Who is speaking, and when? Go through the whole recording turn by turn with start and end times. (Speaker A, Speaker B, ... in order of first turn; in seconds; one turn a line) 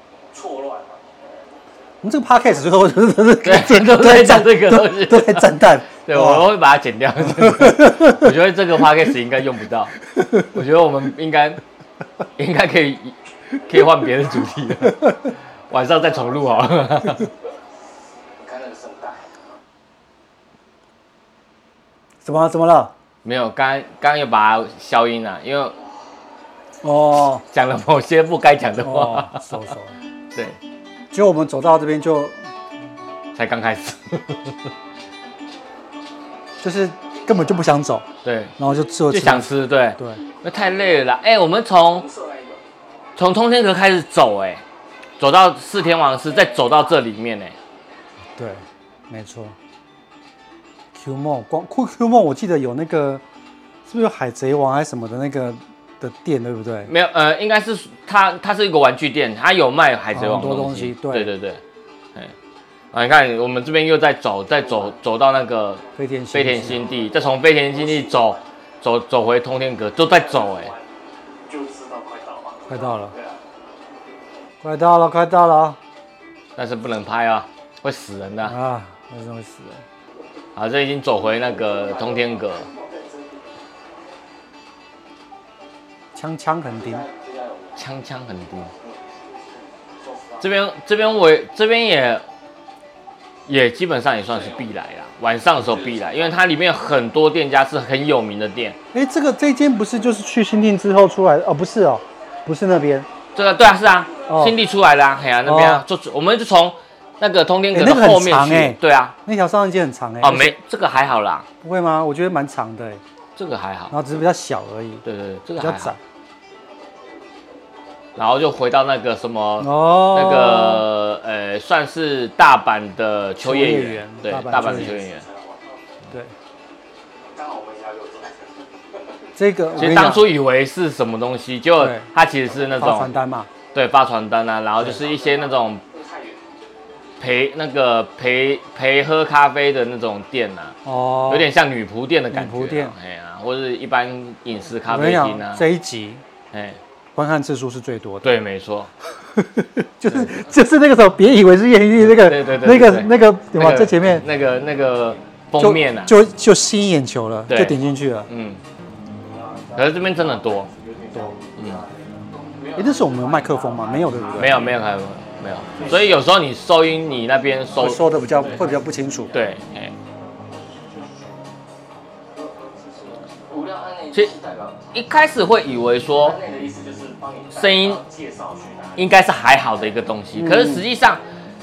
Speaker A: 0.3-1.1
Speaker B: 2.0-6.5
Speaker C: 3.4-11.6
Speaker B: 7.2-8.3
Speaker C: 12.4-15.2
Speaker C: 15.7-17.3
Speaker A: 18.4-19.3
Speaker B: 22.2-22.9
Speaker C: 23.2-25.8
Speaker B: 26.8-27.4
Speaker C: 27.5-29.7
Speaker B: 28.8-30.0
Speaker B: 31.1-32.4
Speaker C: 33.4-34.6
Speaker B: 36.6-38.1
Speaker C: 38.2-38.5
Speaker B: 38.6-40.2
Speaker C: 39.1-42.1
Speaker A: 41.9-42.6
Speaker C: 43.2-44.6
Speaker C: 45.2-47.6
Speaker B: 48.4-49.5
Speaker B: 50.9-53.2
Speaker B: 53.9-56.9
Speaker C: 56.9-61.6
Speaker B: 60.1-61.3
Speaker C: 62.9-70.7
Speaker B: 66.0-66.8
Speaker A: 66.8-68.3
Speaker A: 70.0-70.9
Speaker A: 71.5-73.4
Speaker B: 72.7-73.1
Speaker B: 74.6-75.8
Speaker C: 76.6-78.6
Speaker B: 78.5-79.8
Speaker C: 80.5-82.7
Speaker A: 81.5-83.1
Speaker B: 86.2-87.1
Speaker A: 86.7-87.8
Speaker C: 87.8-88.7
Speaker A: 90.0-90.5
Speaker C: 90.4-92.2
Speaker C: 93.5-98.8
Speaker A: 94.3-94.7
Speaker A: 95.6-96.4
Speaker B: 98.9-103.1
Speaker C: 103.3-109.2
Speaker B: 104.3-104.6
Speaker B: 105.5-105.8
Speaker B: 107.7-110.6
Speaker C: 110.2-111.5
Speaker B: 111.6-113.0
Speaker C: 113.4-114.0
Speaker B: 113.9-115.0
Speaker C: 115.0-116.0
Speaker B: 115.6-116.0
Speaker C: 118.2-125.3
Speaker B: 119.6-120.9
Speaker B: 123.4-125.0
Speaker A: 124.5-125.6
Speaker A: 127.3-129.0
Speaker B: 129.4-130.3
Speaker C: 129.8-133.1
Speaker B: 131.8-132.1
Speaker B: 132.8-133.5
Speaker C: 133.7-135.8
Speaker A: 134.8-136.4
Speaker C: 137.2-145.6
Speaker B: 140.8-141.5
Speaker B: 142.3-142.9
Speaker B: 144.9-146.2
Speaker C: 146.5-146.8
Speaker B: 147.2-148.3
Speaker C: 148.2-148.9
Speaker B: 149.2-154.2
Speaker C: 152.0-156.2
Speaker B: 155.6-158.3
Speaker C: 157.5-158.6
Speaker C: 159.7-160.7
Speaker A: 160.7-161.3
Speaker B: 161.1-161.4
Speaker C: 161.6-161.9
Speaker A: 162.5-164.8
Speaker B: 162.8-164.7
Speaker C: 164.3-168.1
Speaker A: 165.7-166.2
Speaker B: 167.7-169.3
Speaker A: 168.3-169.4
Speaker C: 169.3-169.9
Speaker A: 173.4-174.8
Speaker C: 174.9-176.4
Speaker A: 176.1-179.2
Speaker C: 177.5-178.0
Speaker C: 179.0-181.2
Speaker B: 180.3-180.9